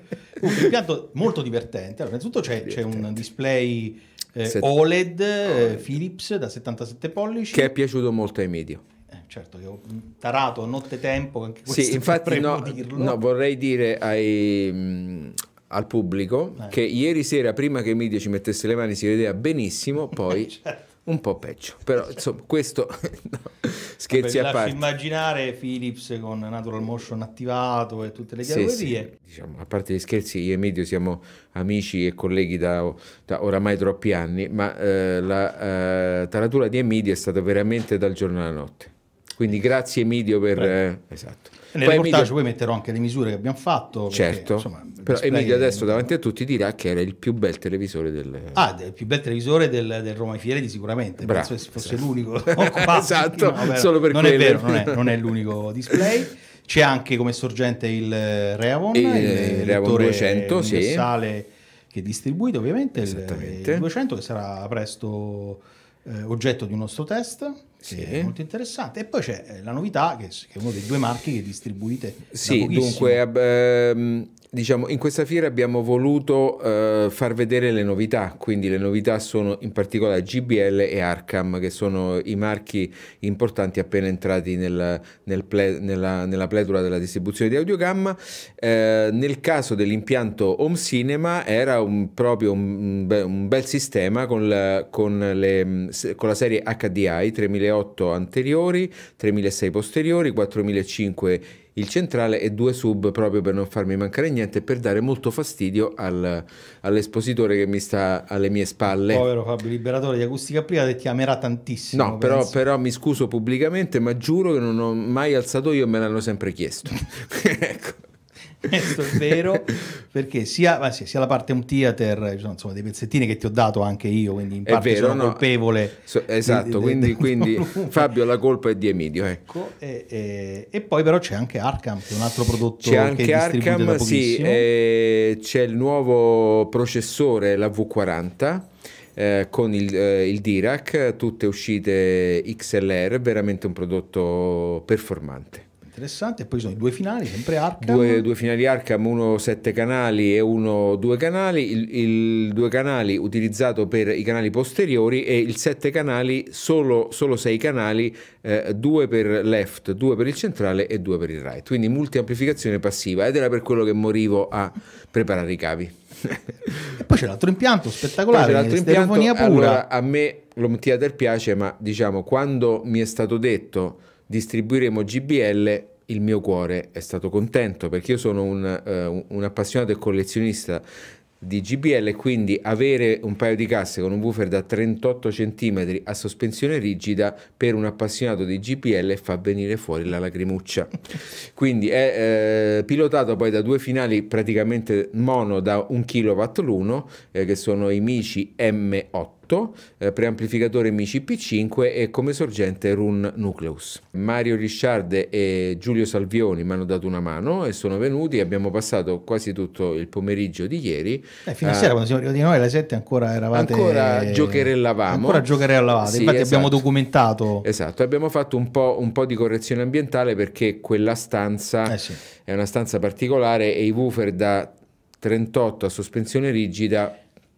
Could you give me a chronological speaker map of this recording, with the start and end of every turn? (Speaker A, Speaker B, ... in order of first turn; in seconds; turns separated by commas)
Speaker A: 0.3-7.7, Speaker B: 2.7-3.1, Speaker B: 7.5-8.8, Speaker A: 9.1-13.2, Speaker B: 11.7-24.9, Speaker A: 24.1-29.1, Speaker B: 28.4-42.3, Speaker A: 41.7-46.1, Speaker B: 44.1-48.6, Speaker A: 48.5-73.2, Speaker B: 51.2-55.3, Speaker B: 58.9-61.1, Speaker B: 63.0-63.8, Speaker B: 67.8-68.3, Speaker B: 72.3-109.2, Speaker A: 109.1-112.5, Speaker B: 111.9-118.0, Speaker A: 118.6-128.1, Speaker B: 118.7-119.2, Speaker B: 124.7-125.5, Speaker B: 126.0-129.5, Speaker A: 129.5-134.7, Speaker B: 132.8-145.6, Speaker A: 145.8-148.2, Speaker B: 147.8-167.0, Speaker A: 166.9-169.8, Speaker B: 168.3-180.8, Speaker B: 181.4-211.9, Speaker A: 211.4-217.7, Speaker B: 213.5-215.5, Speaker B: 216.0-216.8, Speaker B: 217.6-227.2, Speaker A: 221.8-222.2